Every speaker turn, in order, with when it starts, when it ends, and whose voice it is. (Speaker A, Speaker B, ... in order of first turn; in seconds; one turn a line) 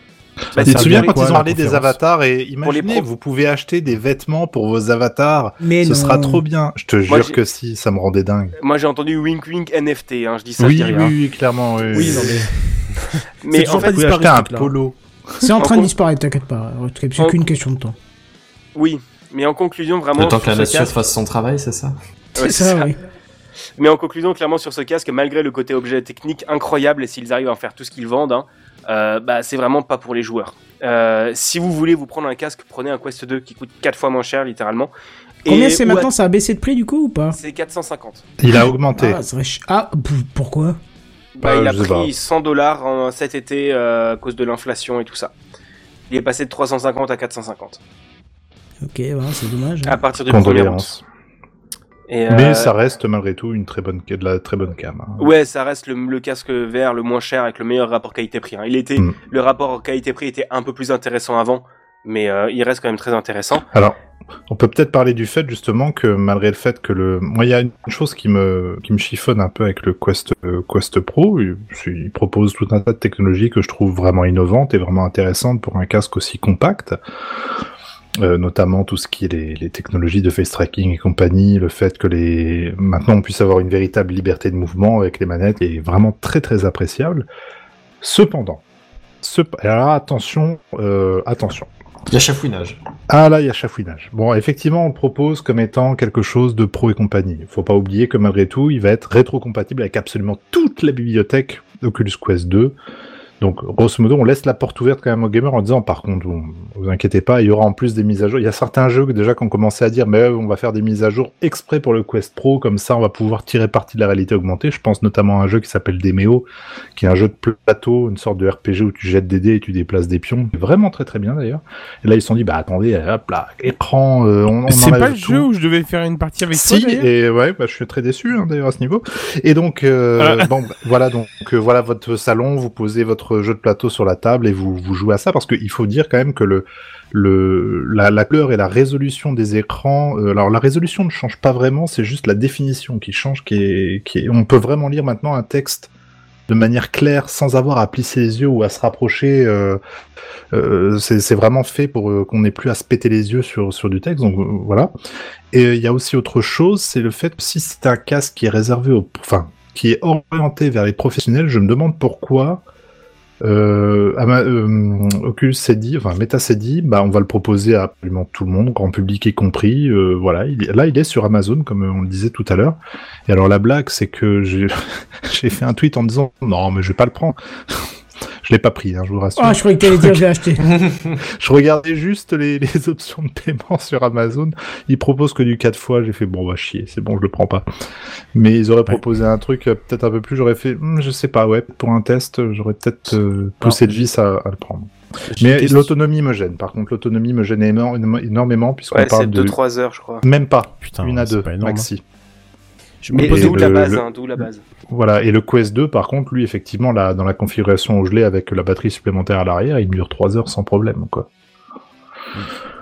Speaker A: 0.5-1.2
Speaker B: 0.6-2.0
Speaker C: 0.6-8.5
Speaker A: 2.6-3.0
Speaker D: 5.6-6.4
Speaker A: 7.1-7.4
Speaker A: 8.6-11.2
Speaker C: 10.6-12.4
Speaker A: 11.9-12.4
Speaker B: 11.9-14.7
Speaker A: 13.4-14.0
Speaker C: 13.6-15.5
Speaker D: 15.4-17.9
Speaker A: 15.6-15.9
Speaker A: 18.8-20.9
Speaker E: 20.2-22.0
Speaker A: 22.4-22.9
Speaker D: 22.4-23.0
Speaker A: 23.8-34.9
Speaker A: 35.5-36.1
Speaker D: 35.5-37.4
Speaker A: 37.3-38.2
Speaker C: 38.4-39.2
Speaker D: 39.0-40.8
Speaker A: 41.4-45.3
Speaker C: 41.4-42.1
Speaker A: 46.1-47.8
Speaker D: 48.8-50.0
Speaker A: 49.9-50.9
Speaker C: 50.2-51.0
Speaker A: 52.1-52.7
Speaker C: 52.3-55.3
Speaker A: 55.2-63.6
Speaker C: 63.7-64.0
Speaker C: 64.5-77.0
Speaker C: 78.2-87.3
Speaker C: 88.0-88.6
Speaker C: 89.2-91.7
Speaker E: 92.1-92.8
Speaker C: 93.1-102.8
Speaker C: 103.4-125.5
Speaker F: 124.7-127.1
Speaker C: 126.5-145.9
Speaker F: 130.2-130.5
Speaker C: 146.5-149.8
Speaker C: 150.5-154.9
Speaker C: 155.5-162.6
Speaker C: 163.4-177.8
Speaker C: 178.4-180.2
Speaker D: 179.4-180.6
Speaker C: 181.2-187.7
Speaker C: 188.3-199.6
Speaker B: 193.6-194.0
Speaker B: 195.3-195.9
Speaker A: 198.9-200.2
Speaker C: 200.2-202.0
Speaker B: 200.8-201.9
Speaker B: 203.0-203.7
Speaker C: 203.2-204.0
Speaker A: 203.2-204.6
Speaker C: 204.9-211.3